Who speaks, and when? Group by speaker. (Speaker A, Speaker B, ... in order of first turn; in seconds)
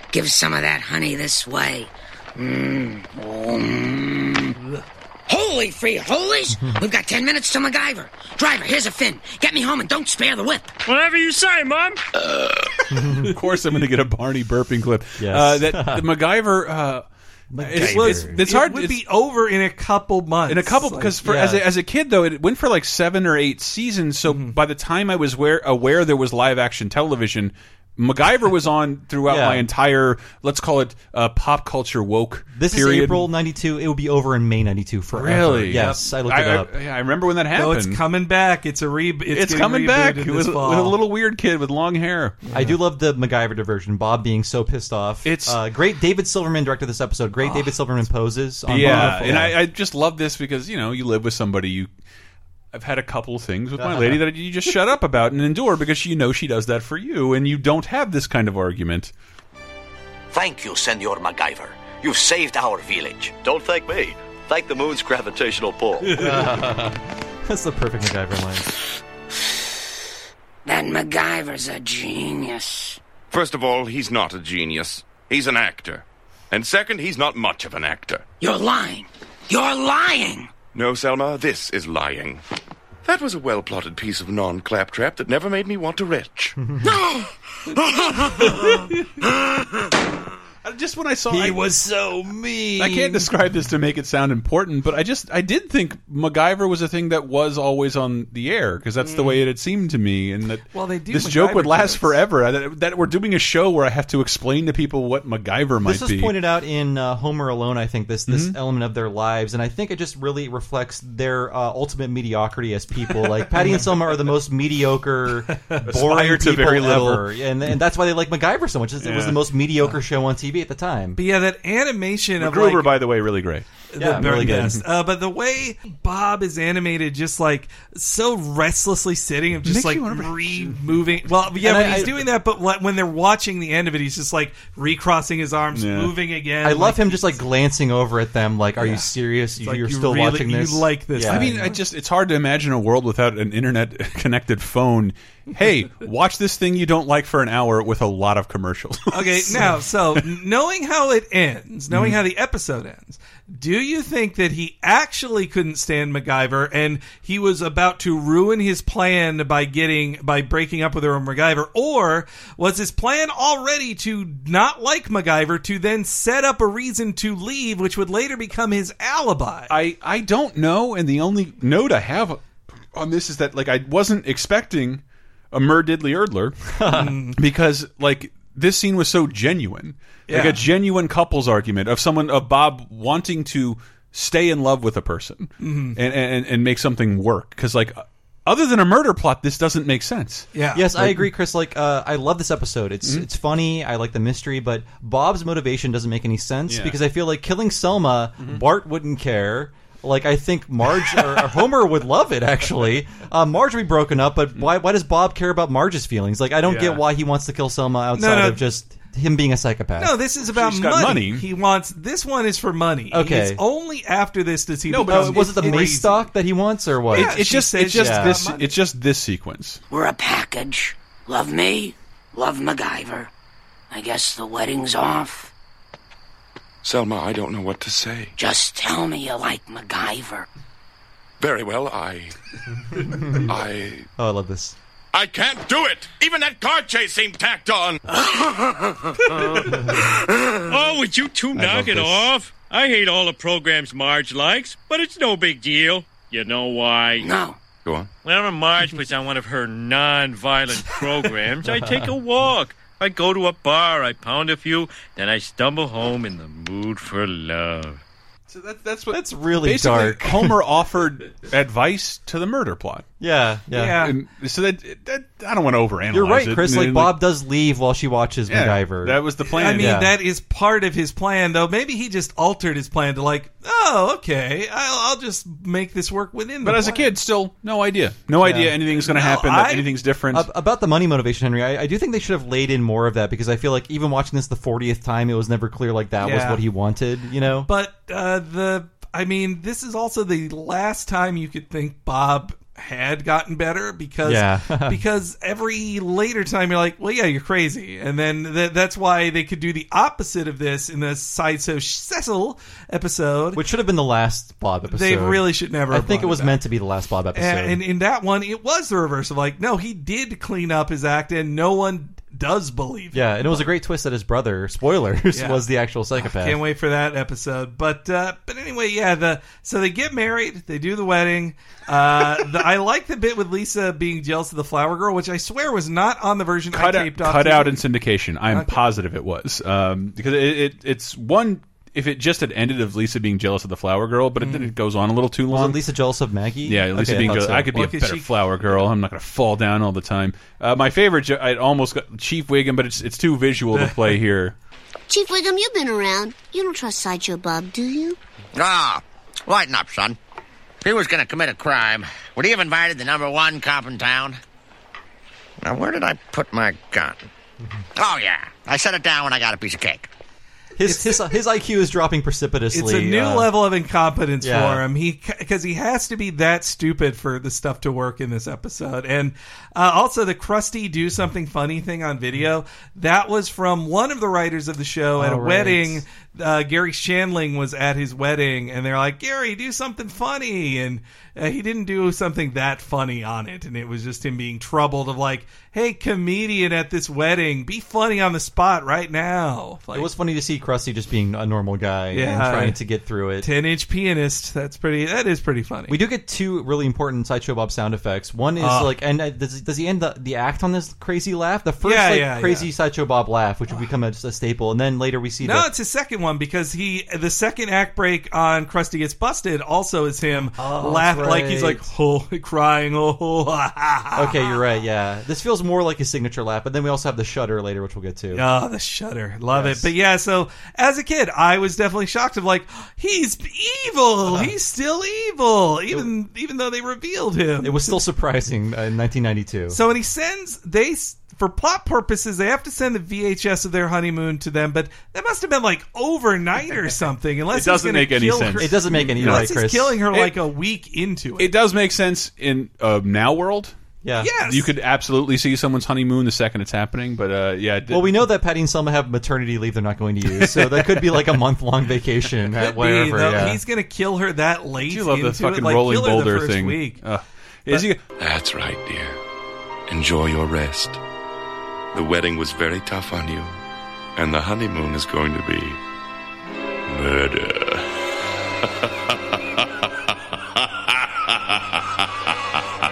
Speaker A: 0.1-4.5, 5.3-10.8, 70.6-73.0, 78.4-80.5, 86.8-88.6, 219.9-223.3, 223.9-225.5, 228.4-230.4, 247.2-247.6
Speaker B: 4.6-4.8, 17.8-21.1, 24.3-24.5, 35.7-36.0, 37.5-41.0, 42.4-42.7, 48.8-49.4, 99.0-99.4, 100.7-102.2, 121.2-123.0, 123.9-137.4, 138.8-139.1, 139.6-141.8, 149.1-169.7, 176.9-177.4, 180.3-180.6, 185.6-186.0, 190.5-190.9, 208.2-208.6, 210.0-216.2, 217.1-218.8, 263.7-264.1, 269.4-277.1, 278.9-279.9, 286.2-286.6, 287.6-303.6, 304.9-306.6, 307.3-313.6, 315.3-315.6, 316.2-327.8, 328.5-328.8, 334.4-334.7, 337.7-338.4, 343.7-344.0, 360.8-361.2, 362.7-390.1, 392.1-392.8, 393.4-396.0, 398.6-398.9, 401.8-402.7, 405.4-414.4, 418.3-428.0, 429.7-441.5, 444.2-444.7, 452.6-457.0
Speaker C: 10.9-12.0, 239.3-247.3, 248.2-258.0
Speaker D: 12.9-13.3, 15.2-16.1, 17.5-18.3, 21.2-21.6, 29.3-29.7, 32.5-36.7, 42.5-49.6, 53.8-54.2, 66.1-68.7, 91.3-93.3, 105.8-121.2, 124.0-124.8, 131.6-132.2, 136.6-141.6, 176.8-177.1, 190.7-210.1, 213.1-213.6, 215.1-217.4, 217.9-218.4, 233.1-233.5, 234.2-234.8, 241.5-242.3, 251.7-252.1, 259.1-260.6, 263.2-264.1, 266.1-270.1, 278.4-278.7, 280.3-287.7, 294.2-295.0, 303.5-307.8, 313.1-316.6, 335.5-337.8, 360.8-363.5, 364.4-364.8, 375.2-376.0, 389.9-393.5, 395.9-405.7, 410.6-411.8, 414.1-418.4, 419.5-419.9, 424.3-424.5, 427.6-429.8, 438.6-440.0, 444.0-444.3, 447.9-453.6
Speaker E: 13.1-17.0, 17.6-19.0, 20.5-33.3, 35.1-38.0, 39.3-42.4, 45.2-45.6, 48.7-51.9, 52.7-59.1, 90.6-91.6, 92.8-106.3, 108.3-108.5, 115.8-117.3, 119.0-119.4, 122.4-123.7, 124.2-124.7, 129.6-131.1, 135.7-136.1, 141.2-150.2, 151.9-152.2, 169.7-172.4, 172.9-176.8, 177.3-191.3, 196.7-197.0, 206.6-207.0, 210.5-211.4, 214.9-215.9, 217.1-219.8, 258.5-263.1, 263.9-267.2, 268.5-270.0, 276.6-280.5, 326.7-335.8, 336.6-344.6, 437.5-439.5, 440.1-440.4, 441.4-443.7, 444.4-448.2, 450.4-451.2, 454.9-458.0
Speaker F: 60.3-66.2
Speaker G: 73.3-78.2, 80.7-82.4, 83.0-86.6, 226.8-228.3, 231.4-232.3, 233.4-234.1, 235.1-238.0, 458.2-459.2, 459.9-461.0, 461.9-463.6, 464.1-465.8, 466.9-467.9
Speaker H: 345.1-348.2
Speaker I: 348.5-350.2, 350.8-354.4, 355.6-357.3, 358.0-360.1